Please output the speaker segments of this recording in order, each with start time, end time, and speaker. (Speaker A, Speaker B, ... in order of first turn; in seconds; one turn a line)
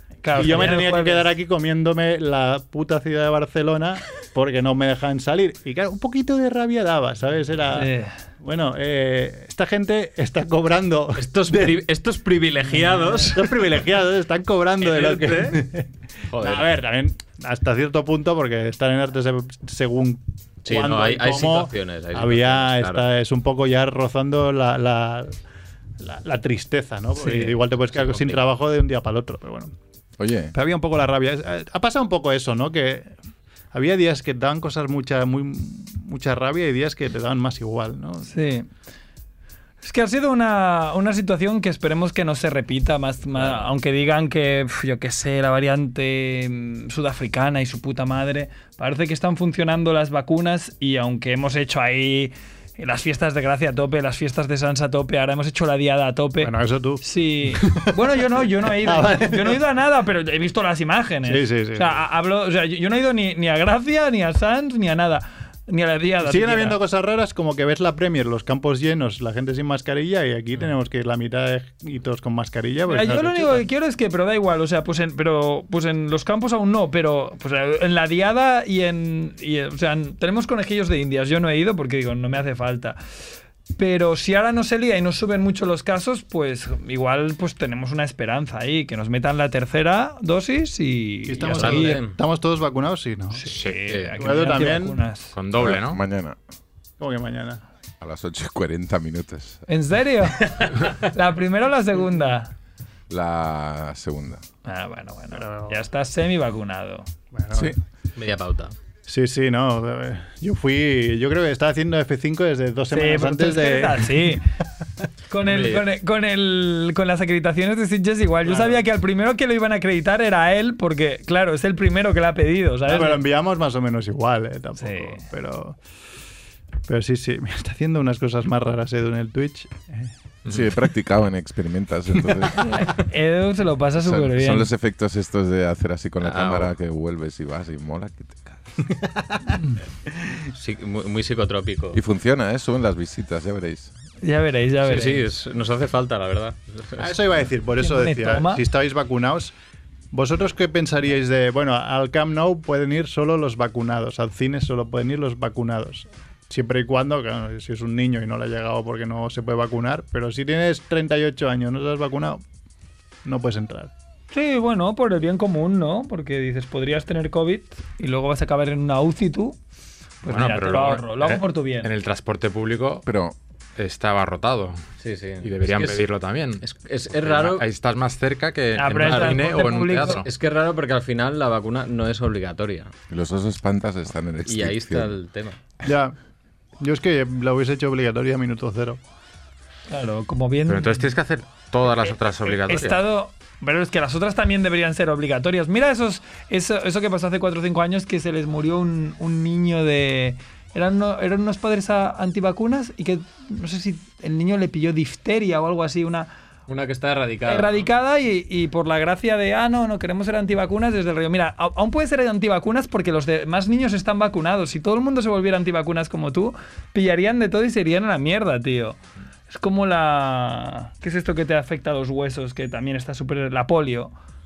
Speaker A: 0.2-1.2
Speaker B: 0.3-11.8
Speaker A: 7.7-8.2
Speaker C: 11.2-13.5
Speaker B: 13.3-25.4
Speaker C: 14.8-15.7
Speaker C: 16.3-16.7
Speaker C: 20.6-23.1
Speaker B: 26.0-29.7
Speaker A: 27.2-27.5
Speaker C: 27.9-28.4
Speaker D: 30.2-30.5
Speaker B: 30.5-33.1
Speaker B: 33.7-38.3
Speaker A: 38.2-38.7
Speaker A: 39.8-66.8
Speaker B: 56.4-58.0
Speaker B: 58.8-59.6
Speaker B: 61.3-62.0
Speaker B: 66.2-73.7
Speaker A: 72.9-83.0
Speaker A: 83.8-92.0
Speaker B: 91.3-93.5
Speaker C: 91.5-92.2
Speaker A: 93.3-95.3
Speaker E: 93.5-93.9
Speaker B: 94.2-95.0
Speaker E: 95.3-96.0
Speaker D: 95.6-96.4
Speaker B: 97.0-97.6
Speaker D: 98.0-99.6
Speaker A: 99.7-102.5
Speaker D: 103.1-104.4
Speaker A: 104.7-107.1
Speaker B: 105.3-105.8
Speaker B: 107.3-107.8
Speaker C: 108.2-108.7
Speaker B: 109.1-114.4
Speaker A: 112.9-114.5
Speaker A: 115.3-123.2
Speaker C: 115.5-115.8
Speaker B: 122.9-125.8
Speaker A: 124.8-125.2
Speaker B: 126.9-130.1
Speaker D: 130.5-132.8
Speaker A: 132.7-134.7
Speaker D: 134.0-138.8
Speaker C: 136.2-136.7
Speaker C: 140.6-142.0
Speaker D: 141.9-143.9
Speaker A: 144.2-145.2
Speaker C: 144.8-147.1
Speaker B: 147.0-149.5
Speaker A: 147.8-148.6
Speaker B: 150.1-162.4
Speaker B: 163.2-163.9
Speaker A: 164.3-169.6
Speaker A: 170.2-171.9
Speaker E: 170.2-173.1
Speaker D: 173.1-173.3
Speaker E: 173.8-174.8
Speaker C: 175.0-176.0
Speaker E: 175.4-176.6
Speaker C: 176.6-177.7
Speaker E: 177.2-180.3
Speaker A: 178.8-180.2
Speaker C: 179.0-179.5
Speaker C: 180.1-182.9
Speaker D: 183.1-185.2
Speaker C: 184.5-185.6
Speaker B: 185.8-186.2
Speaker B: 186.8-189.0
Speaker A: 189.9-191.1
Speaker E: 190.7-193.0
Speaker A: 192.0-206.3
Speaker C: 206.7-207.9
Speaker A: 207.5-224.1